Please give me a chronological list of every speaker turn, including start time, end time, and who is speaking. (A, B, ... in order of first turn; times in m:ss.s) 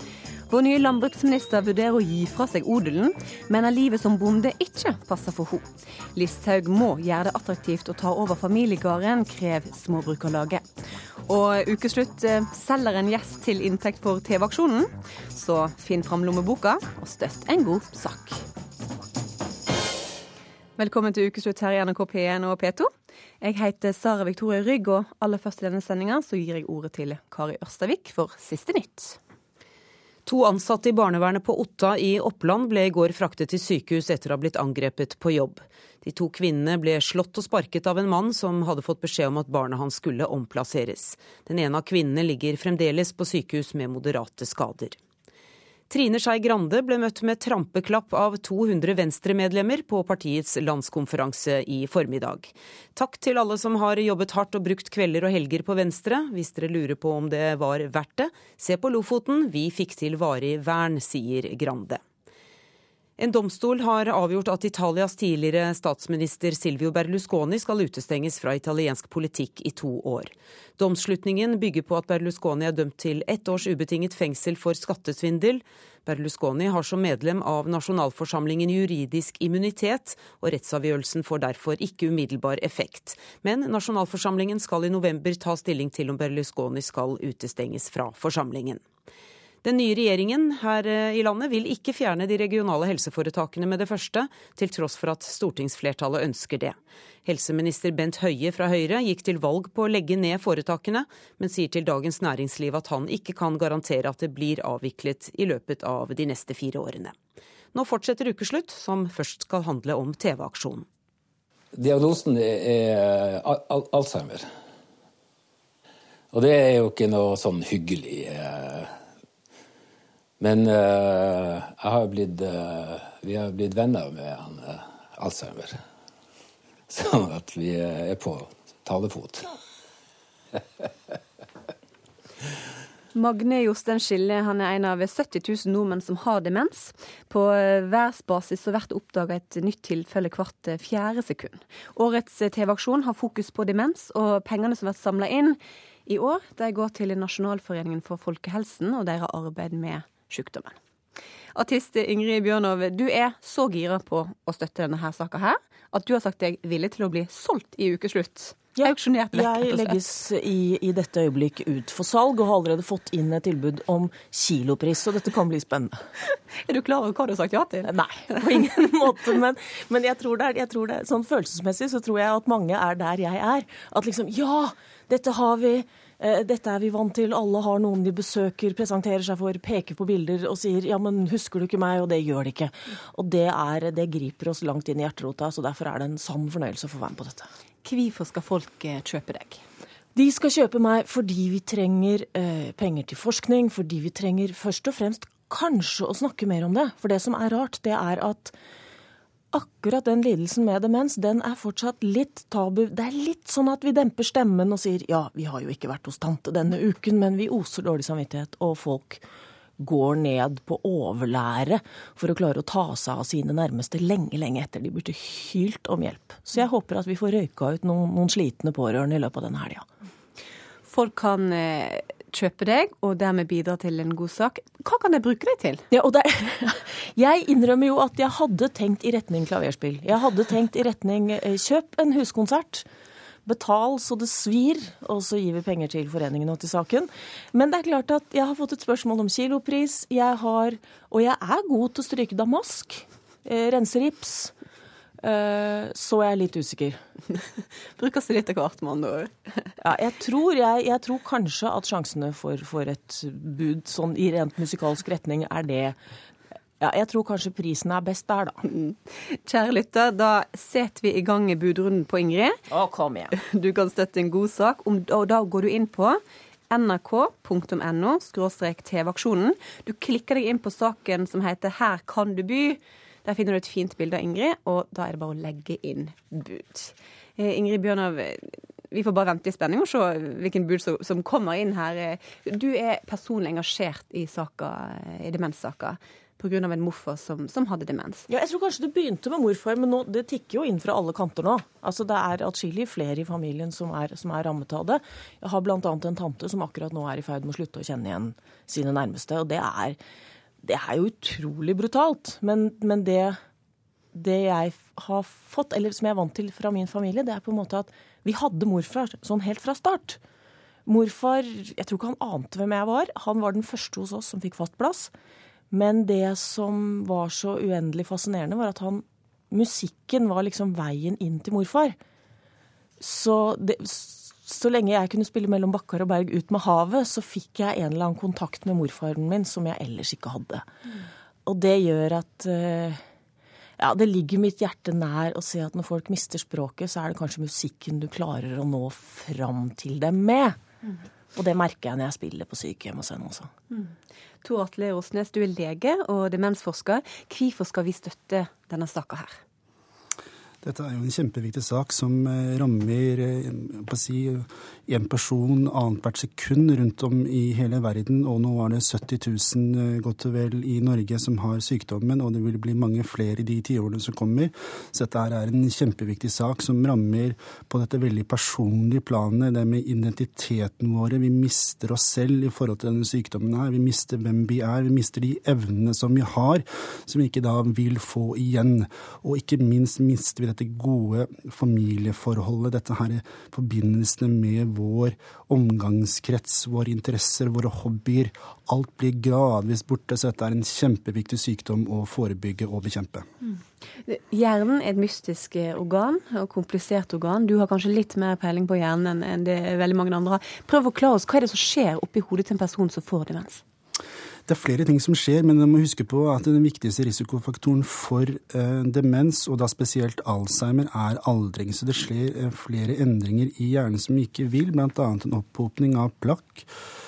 0:00.5-0:10.6 A
0:11.3-0:18.4 A
0:20.8-0:29.2 A
0:30.2-0:45.0 B
0:45.9-1:02.0 B
1:03.2-1:28.8 B
1:29.6-1:47.2 B
1:47.7-1:50.9 B
1:51.7-1:54.5 C
1:56.3-1:58.9 C
2:00.4-2:05.8 C
2:06.9-2:09.5 C
2:13.1-2:30.8 A
2:31.5-2:40.0 A
2:38.8-2:46.0 D
2:46.5-2:48.7 A
2:47.8-3:07.5 D
3:07.8-3:09.6 A
3:10.1-3:18.5 D
3:19.5-3:29.2 D
3:29.8-3:39.9 D
3:40.8-3:45.8 A
3:45.9-3:52.9 D
3:53.4-4:04.5 D
4:05.2-4:07.0 D
4:08.0-4:09.7 A
4:09.8-4:16.0 D
4:16.8-4:18.6 D
4:18.7-4:22.6 A
4:22.7-4:23.3 D
4:23.3-4:48.2 A
4:48.3-5:00.0 D
5:00.6-5:03.4 D
5:04.1-5:10.2 D
5:10.8-5:15.1 D
5:15.7-5:22.0 D
5:23.0-5:30.7 D
5:31.4-5:33.0 D
5:33.8-5:40.6 D
5:41.3-5:43.5 D
5:43.7-5:49.4 A
5:50.6-6:33.2 E
6:33.4-6:43.6 A
6:44.5-6:56.7 E